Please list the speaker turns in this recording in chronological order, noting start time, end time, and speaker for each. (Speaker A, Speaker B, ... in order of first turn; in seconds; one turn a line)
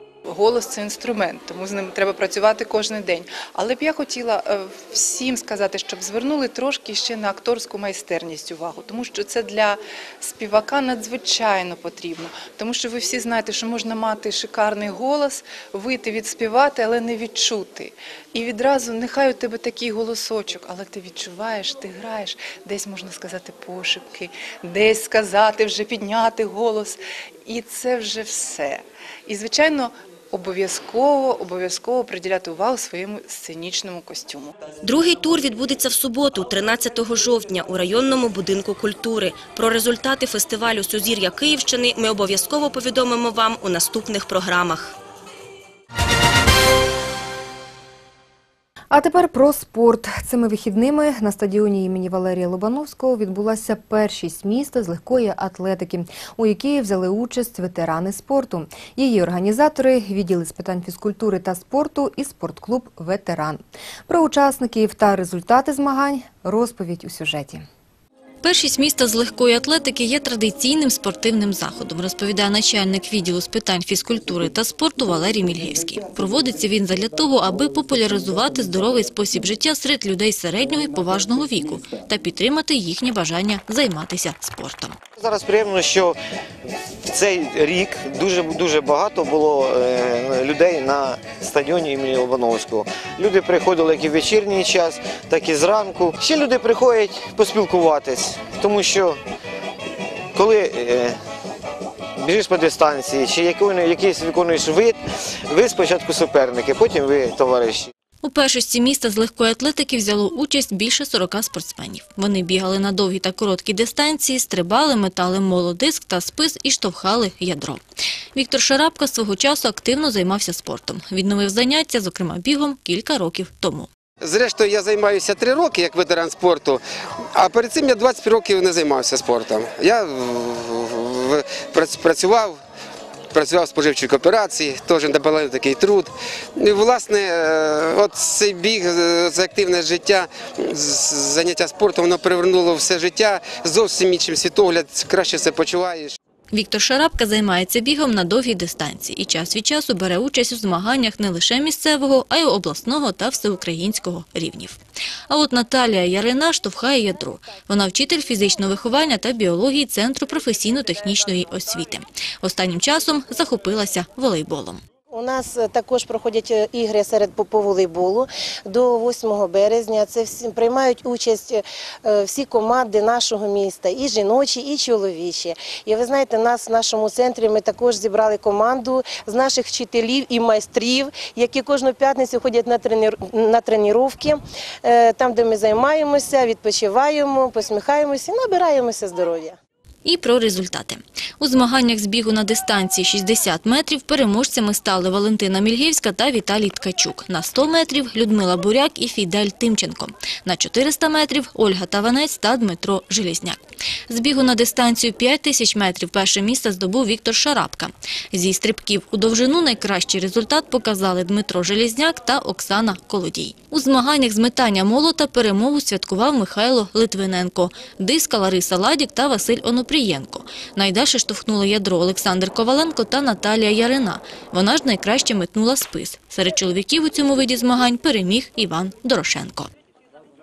Speaker A: 0.3-34.5
Speaker B: 34.8-44.9
Speaker C: 48.9-67.7
Speaker D: 68.4-85.0
Speaker E: 85.2-86.2
Speaker E: 87.0-99.2
Speaker E: 100.3-101.2
Speaker E: 102.2-105.0
Speaker E: 105.5-107.9
Speaker D: 108.2-117.8
Speaker D: 118.3-123.9
Speaker F: 124.2-126.8
Speaker F: 127.4-132.6
Speaker F: 133.3-146.2
Speaker D: 146.5-164.8
Speaker G: 165.1-189.6
Speaker D: 190.1-229.7